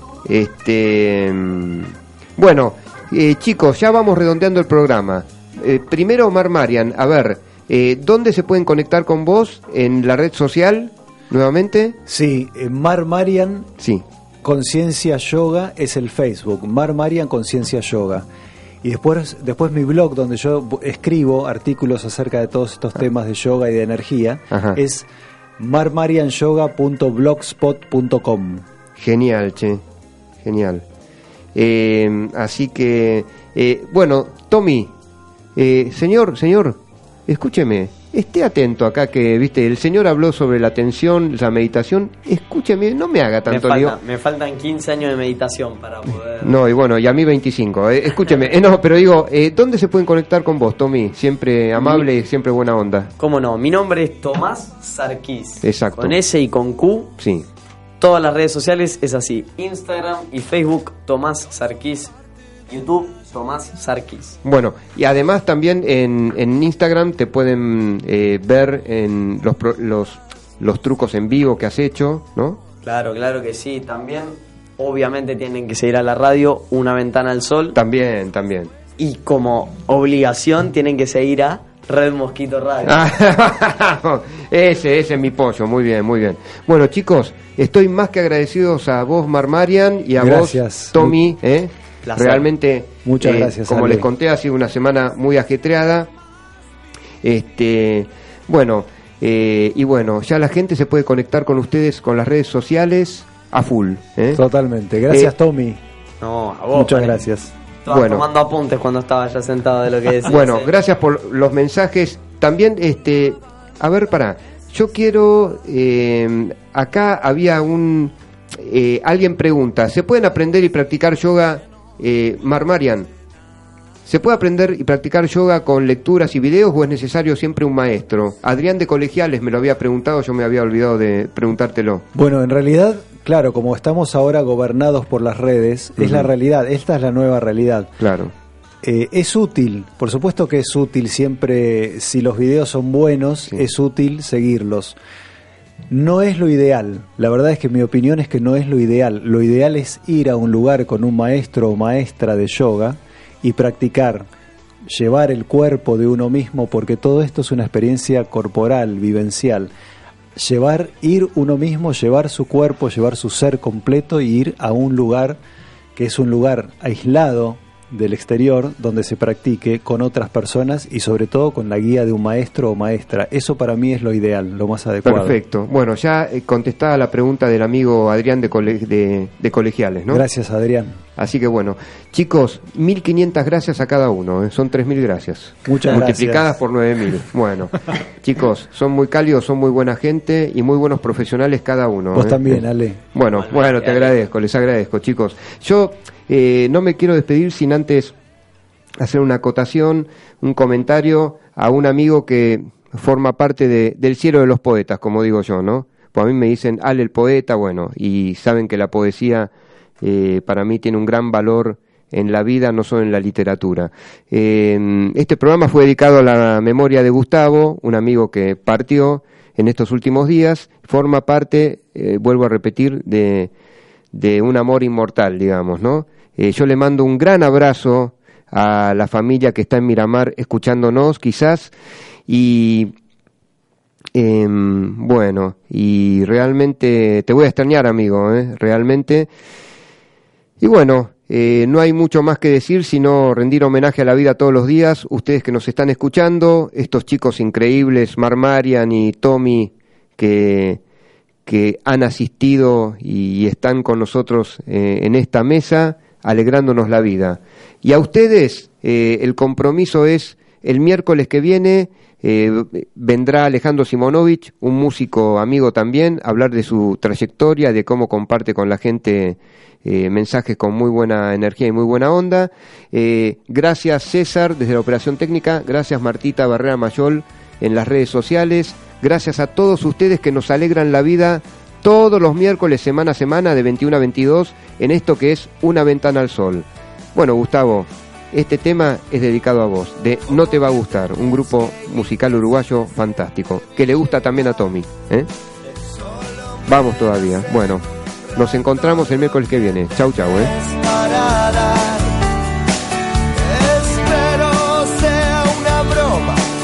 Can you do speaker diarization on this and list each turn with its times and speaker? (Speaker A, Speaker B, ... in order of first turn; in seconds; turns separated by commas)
Speaker A: 0.2-12.0, Speaker B: 12.1-13.7, Speaker A: 13.8-14.0, Speaker B: 14.4-18.3, Speaker B: 18.8-25.1, Speaker A: 24.5-24.8, Speaker B: 25.6-28.6, Speaker A: 29.0-29.8, Speaker A: 30.4-30.9, Speaker A: 31.6-34.9, Speaker A: 35.6-44.0, Speaker C: 43.5-46.5, Speaker A: 46.4-53.1, Speaker C: 51.8-52.1, Speaker C: 53.2-57.1, Speaker A: 55.6-56.2, Speaker A: 57.2-57.5, Speaker C: 58.0-62.1, Speaker C: 62.7-64.4, Speaker A: 64.4-72.6, Speaker C: 72.8-77.8, Speaker A: 77.7-78.7, Speaker C: 79.0-83.0, Speaker A: 82.8-96.1, Speaker B: 90.2-91.2, Speaker C: 92.0-92.5, Speaker B: 93.0-94.1, Speaker A: 97.2-104.4, Speaker B: 104.3-105.8, Speaker C: 106.2-107.2, Speaker B: 106.7-107.5, Speaker C: 107.9-110.7, Speaker A: 107.9-108.3, Speaker A: 110.3-123.1, Speaker A: 124.1-132.0, Speaker B: 132.1-137.9, Speaker A: 136.0-136.3, Speaker A: 138.0-138.3, Speaker B: 138.8-145.0, Speaker B: 145.9-154.3, Speaker B: 154.9-159.7, Speaker B: 160.4-165.4, Speaker B: 166.0-175.4, Speaker A: 175.1-180.2, Speaker B: 180.1-181.0, Speaker A: 181.2-192.6, Speaker B: 185.7-186.5, Speaker B: 192.1-193.0, Speaker A: 193.2-198.2, Speaker C: 193.3-194.2, Speaker A: 199.0-223.5, Speaker A: 224.1-231.7, Speaker A: 232.3-232.9, Speaker A: 234.1-239.3, Speaker A: 240.6-250.8, Speaker A: 251.5-295.3, Speaker A: 296.7-300.5, Speaker D: 300.6-302.0, Speaker D: 303.4-306.4